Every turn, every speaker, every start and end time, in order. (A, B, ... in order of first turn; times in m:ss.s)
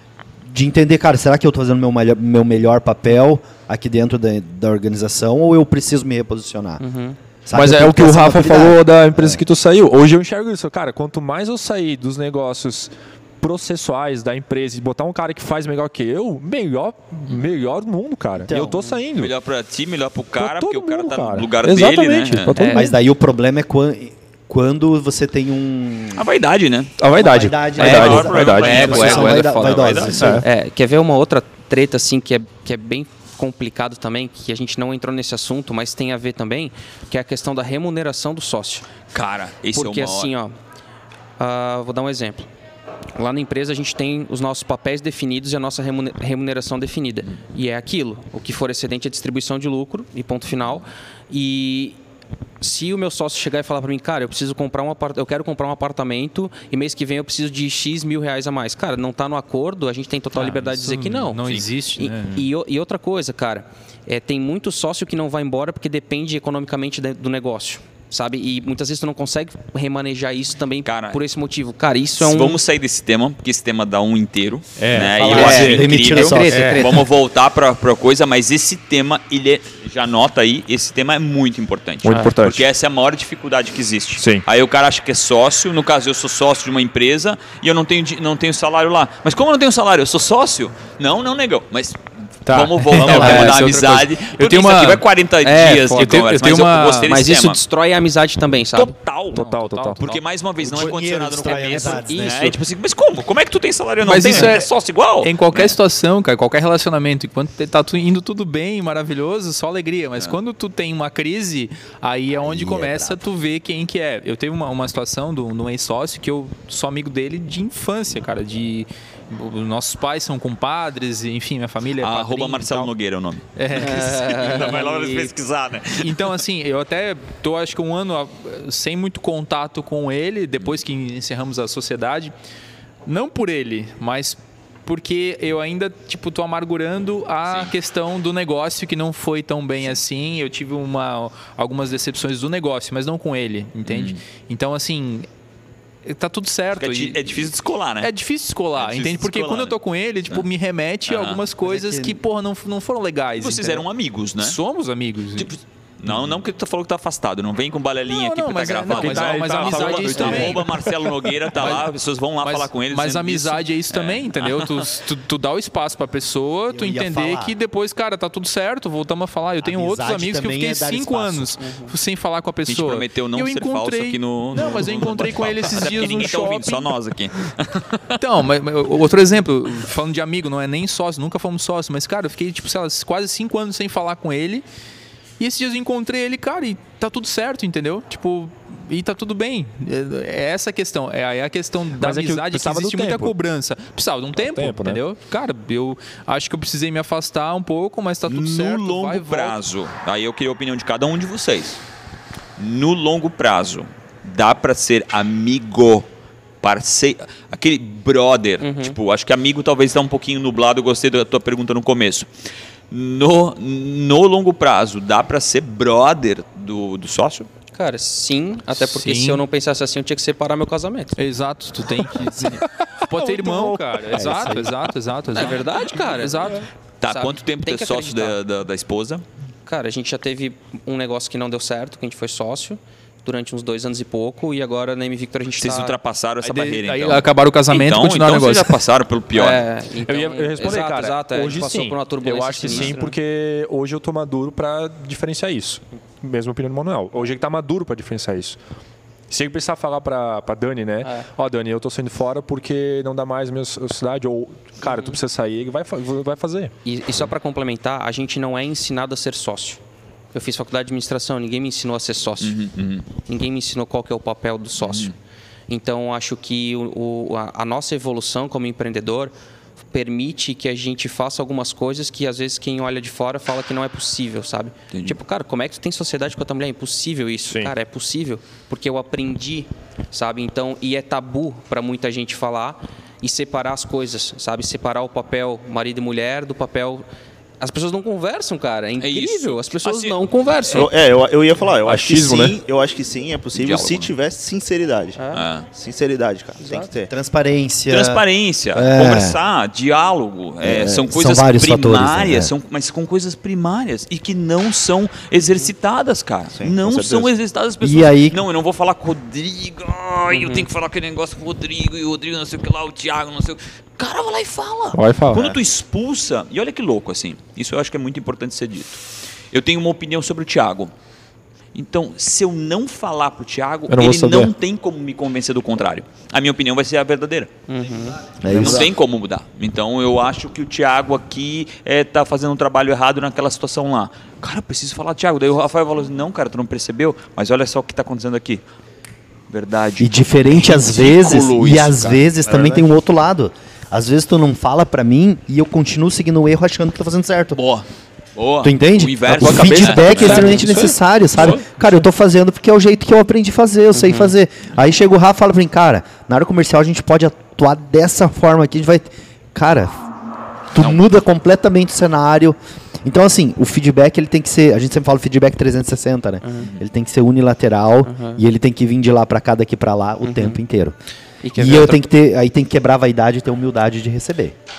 0:00.4-0:06.8 A
0:06.8-0:07.2 B
0:07.4-0:09.4 A
0:07.5-0:19.3 C
0:18.4-0:19.0 A
0:19.1-0:22.6 D
0:20.4-0:22.9 C
0:22.5-0:22.9 B
0:22.6-0:26.2 A
0:26.1-0:26.9 D
0:27.0-0:29.5 C
0:27.1-0:30.4 A
0:27.7-0:30.4 D
0:28.5-0:29.6 B
0:29.6-0:30.0 E
0:30.1-0:30.4 C
0:30.4-0:39.0 B
0:39.1-0:40.3 D
0:39.7-0:40.6 B
0:41.4-0:42.5 B
0:43.2-0:52.0 B
0:52.6-1:12.6 B
1:00.3-1:02.5 E
1:10.8-1:11.2 D
1:12.2-1:37.6 D
1:14.8-1:16.0 C
1:14.9-1:17.0 A
1:15.2-1:17.0 B
1:22.0-1:22.7 C
1:32.5-1:33.5 C
1:32.6-1:35.0 E
1:33.0-1:33.5 A
1:35.4-1:36.4 B
1:35.9-1:37.1 E
1:37.0-1:39.0 B
1:38.7-1:45.8 D
1:39.3-1:40.0 C
1:39.4-1:40.2 E
1:40.6-1:42.6 A
1:41.4-1:42.5 B
1:44.0-2:02.9 E
1:52.4-1:53.2 A
2:02.0-2:06.4 D
2:03.6-2:04.8 E
2:03.8-2:05.3 B
2:05.9-2:12.3 E
2:13.0-2:25.3 E
2:17.4-2:17.7 D
2:23.8-2:24.2 D
2:26.0-2:33.8 E
2:26.8-2:28.1 D
2:28.8-2:29.7 D
2:31.1-2:31.4 D
2:31.6-2:32.2 A
2:33.4-2:34.6 D
2:34.4-2:35.5 E
2:35.4-2:45.0 D
2:38.0-2:40.7 E
2:38.9-2:40.7 C
2:41.6-2:41.9 E
2:42.4-2:56.9 E
2:46.7-2:47.6 A
2:49.6-2:51.6 A
2:51.6-2:51.9 B
2:52.7-2:58.2 D
2:58.2-3:04.6 E
3:05.4-3:19.6 E
3:12.0-3:13.3 C
3:14.4-3:15.0 C
3:18.3-3:21.8 D
3:22.6-3:26.1 D
3:26.6-3:32.3 D
3:28.6-3:29.0 B
3:32.9-3:37.5 D
3:37.7-3:41.2 B
3:38.8-3:39.4 E
3:41.2-3:46.6 E
3:43.1-3:44.0 C
3:44.1-3:44.9 A
3:45.3-3:48.4 B
3:47.0-3:49.2 D
3:49.6-3:56.0 B
3:55.5-3:59.6 D
3:56.4-3:58.8 E
3:59.3-4:03.2 B
4:00.0-4:08.6 C
4:02.6-4:02.9 D
4:09.3-4:16.7 C
4:11.0-4:11.3 B
4:14.8-4:15.2 B
4:16.8-4:19.8 B
4:20.3-4:22.6 B
4:22.4-4:23.1 D
4:23.1-4:25.1 B
4:24.8-4:25.1 D
4:25.7-4:29.3 B
4:29.8-4:47.0 B
4:34.9-4:35.2 D
4:37.5-4:37.7 C
4:47.6-4:50.9 B
4:49.0-4:50.2 D
4:50.7-4:57.1 F
4:51.8-4:52.6 C
4:53.5-4:54.1 D
4:55.2-4:55.5 B
4:55.3-4:55.7 D
4:56.6-4:56.9 B
4:57.1-4:59.4 A
4:57.9-5:20.9 D
5:00.6-5:02.5 A
5:06.6-5:07.3 F
5:07.8-5:08.4 A
5:10.3-5:10.7 B
5:14.9-5:15.4 C
5:15.3-5:15.6 F
5:21.7-5:27.5 D
5:23.9-5:24.5 C
5:27.7-5:28.3 B
5:28.4-5:28.9 A
5:28.5-5:38.6 D
5:39.5-5:42.3 D
5:40.0-5:47.6 A
5:47.5-5:50.6 D
5:48.6-6:00.0 A
5:49.4-5:51.0 C
5:50.3-5:50.7 B
5:51.4-5:51.6 D
5:53.9-5:54.3 B
6:00.7-6:10.9 A
6:06.4-6:06.7 B
6:08.0-6:08.4 B
6:10.2-6:10.6 B
6:11.4-6:12.0 B
6:11.6-6:14.5 A